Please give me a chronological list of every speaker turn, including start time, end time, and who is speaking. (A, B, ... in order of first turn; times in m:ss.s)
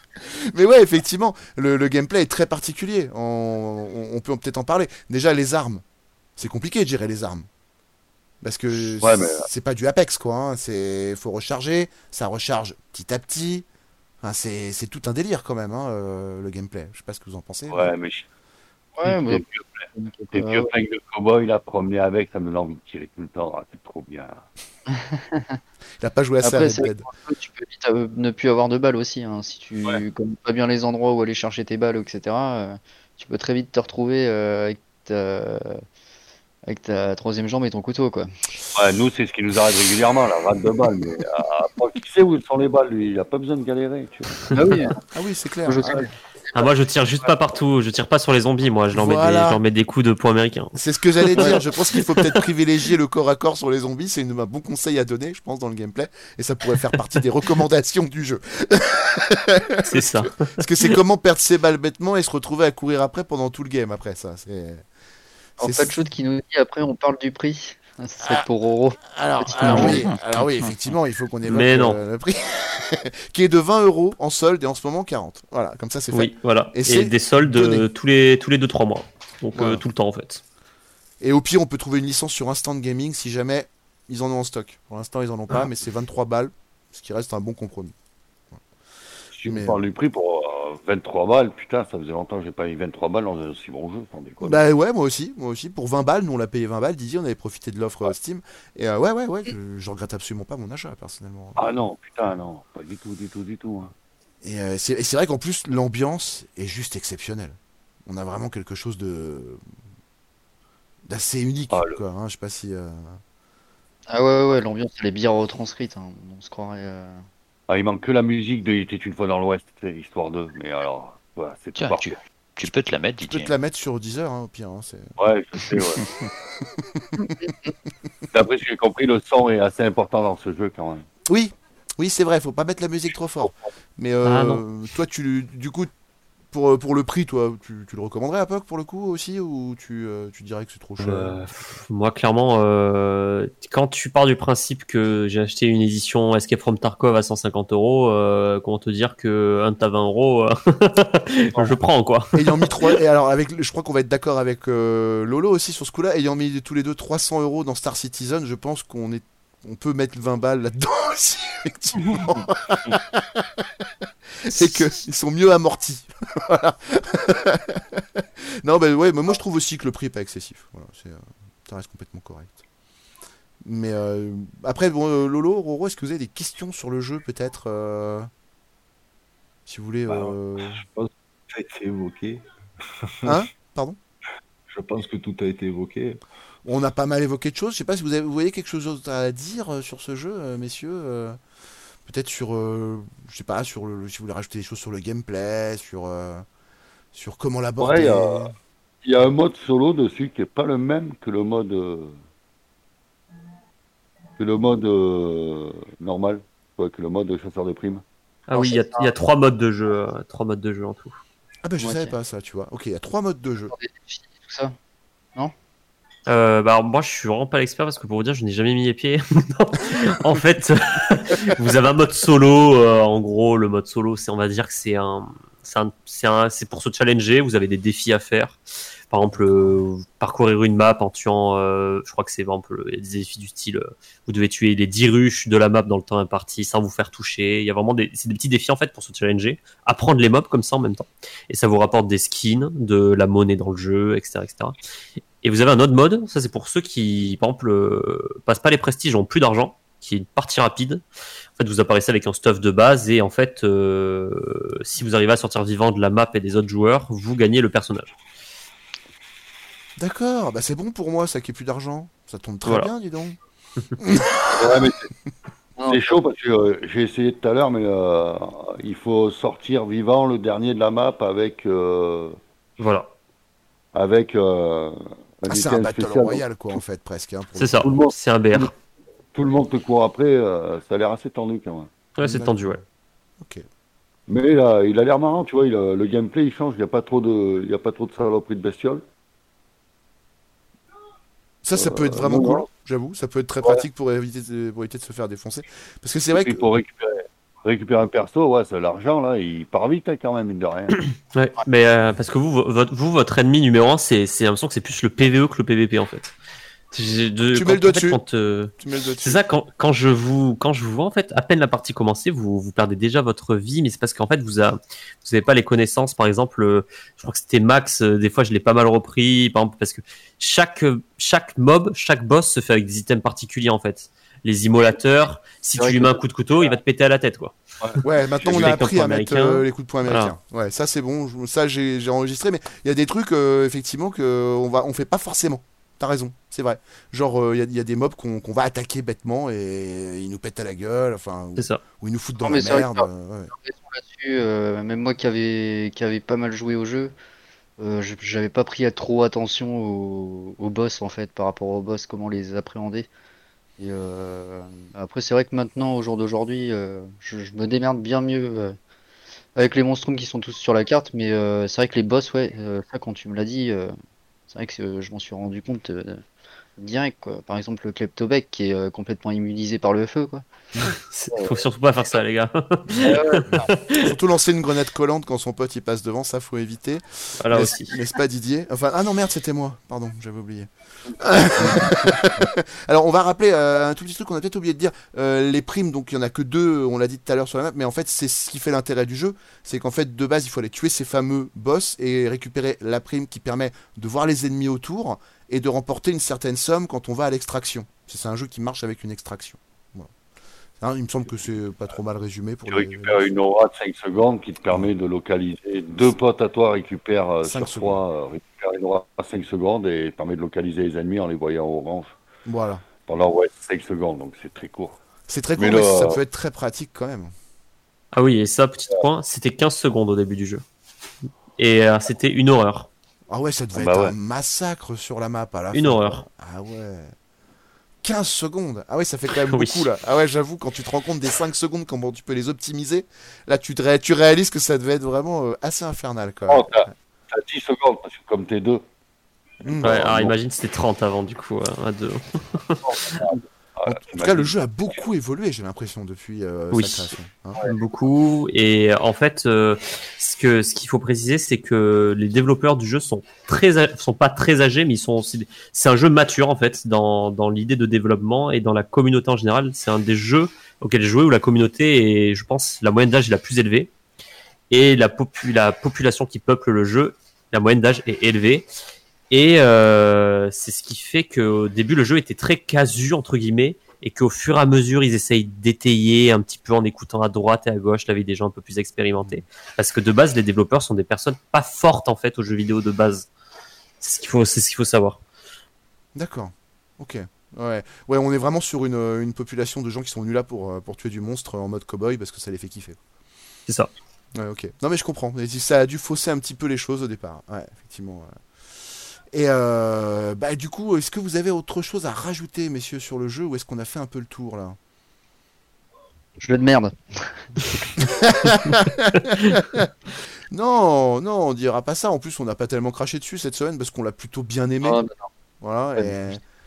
0:00.2-0:05.8 A
0:06.4-0:07.5 A
0:08.4-0:13.6 A
0:09.0-0:09.4 B
0:14.2-0:17.9 A
0:17.7-0:18.2 B
0:19.0-0:20.7 C
0:19.0-0:24.4 B
0:24.9-0:25.6 C
0:26.0-0:27.0 A
0:26.4-0:35.8 C
0:36.7-0:38.3 C
0:38.7-0:44.6 B
0:44.5-0:45.0 C
0:45.1-0:46.1 A
0:45.6-0:46.1 C
0:46.5-0:52.4 D
0:48.9-0:49.6 A
0:50.8-1:04.8 A
0:59.8-1:00.9 D
1:05.6-1:06.0 A
1:05.6-1:10.0 C
1:09.0-1:17.9 A
1:09.7-1:10.7 E
1:11.5-1:12.0 D
1:16.1-1:20.4 D
1:19.5-1:19.8 A
1:21.2-1:27.9 A
1:29.3-1:34.6 B
1:29.4-1:29.8 A
1:34.4-1:41.6 A
1:41.6-1:43.9 B
1:44.4-1:49.6 A
1:51.1-1:53.2 A
1:51.7-1:52.0 B
1:54.1-1:57.2 C
1:57.7-2:02.2 B
2:01.7-2:03.5 E
2:03.2-2:05.2 A
2:05.2-2:06.0 B
2:07.4-2:07.7 C
2:08.3-2:11.0 B
2:11.3-2:15.9 A
2:14.2-2:14.6 D
2:16.5-2:21.4 A
2:21.0-2:32.9 D
2:32.3-2:43.4 A
2:44.4-2:48.0 A
2:48.6-2:52.6 A
2:53.6-2:58.3 A
2:59.7-3:00.8 A
3:00.1-3:02.4 F
3:03.2-3:04.0 A
3:04.7-3:06.2 F
3:06.6-3:11.4 A
3:12.0-3:16.4 A
3:17.1-3:18.5 A
3:17.8-3:22.2 B
3:24.4-3:28.0 B
3:28.5-3:31.2 D
3:28.5-3:29.1 C
3:31.6-3:33.7 A
3:31.8-3:32.1 C
3:33.7-3:34.7 C
3:36.3-3:48.6 D
3:49.1-4:04.8 D
4:05.4-4:11.0 D
4:11.6-4:18.1 D
4:20.0-4:23.4 A
4:22.6-4:22.9 D
4:24.0-4:24.9 A
4:24.6-4:25.1 B
4:25.8-4:26.2 C
4:25.9-4:32.4 B
4:32.8-4:33.1 D
4:33.9-4:36.8 B
4:35.5-4:37.9 A
4:37.6-4:38.7 D
4:37.8-4:38.7 B
4:39.3-4:41.9 B
4:42.2-4:42.8 D
4:42.2-4:42.8 A
4:44.3-4:49.0 B
4:51.6-4:56.7 A
4:51.7-4:52.7 B
4:56.3-5:00.9 B
5:01.0-5:06.3 D
5:06.9-5:27.6 D
5:07.5-5:08.2 A
5:08.8-5:09.4 A
5:25.8-5:26.2 C
5:27.8-5:28.8 B
5:28.0-5:43.5 A
5:28.5-5:30.3 D
5:42.4-5:47.1 C
5:47.8-5:53.1 C
5:53.8-5:58.8 C
5:59.6-6:03.9 C
6:04.5-6:06.2 C
6:06.8-6:10.4 C
6:11.1-6:14.0 D
6:12.9-6:40.1 A
6:13.0-6:13.7 C
6:17.4-6:17.9 D
6:40.8-6:43.2 A
6:42.7-6:52.2 B
6:47.4-6:48.0 A
6:52.4-6:52.8 A
6:53.1-6:55.0 B
6:55.3-6:57.3 A
6:55.6-6:56.2 B
6:58.1-7:00.6 D
7:01.6-7:02.9 D
7:03.3-7:07.1 A
7:03.7-7:04.1 B
7:05.7-7:06.2 D
7:08.0-7:16.9 A
7:09.4-7:09.8 D
7:16.5-7:18.8 B
7:19.6-7:20.3 A
7:19.8-7:20.3 B
7:19.8-7:23.2 D
7:22.8-7:24.5 B
7:23.8-7:27.6 A
7:26.7-7:43.9 D
7:44.7-7:48.7 D
7:49.3-8:03.3 D
8:04.0-8:05.2 D
8:06.2-8:13.0 A
8:14.4-8:18.3 A
8:19.3-8:24.8 A
8:26.4-8:27.8 C
8:28.0-8:29.9 A
8:30.5-8:35.0 A
8:34.8-8:35.3 C
8:35.6-8:36.4 A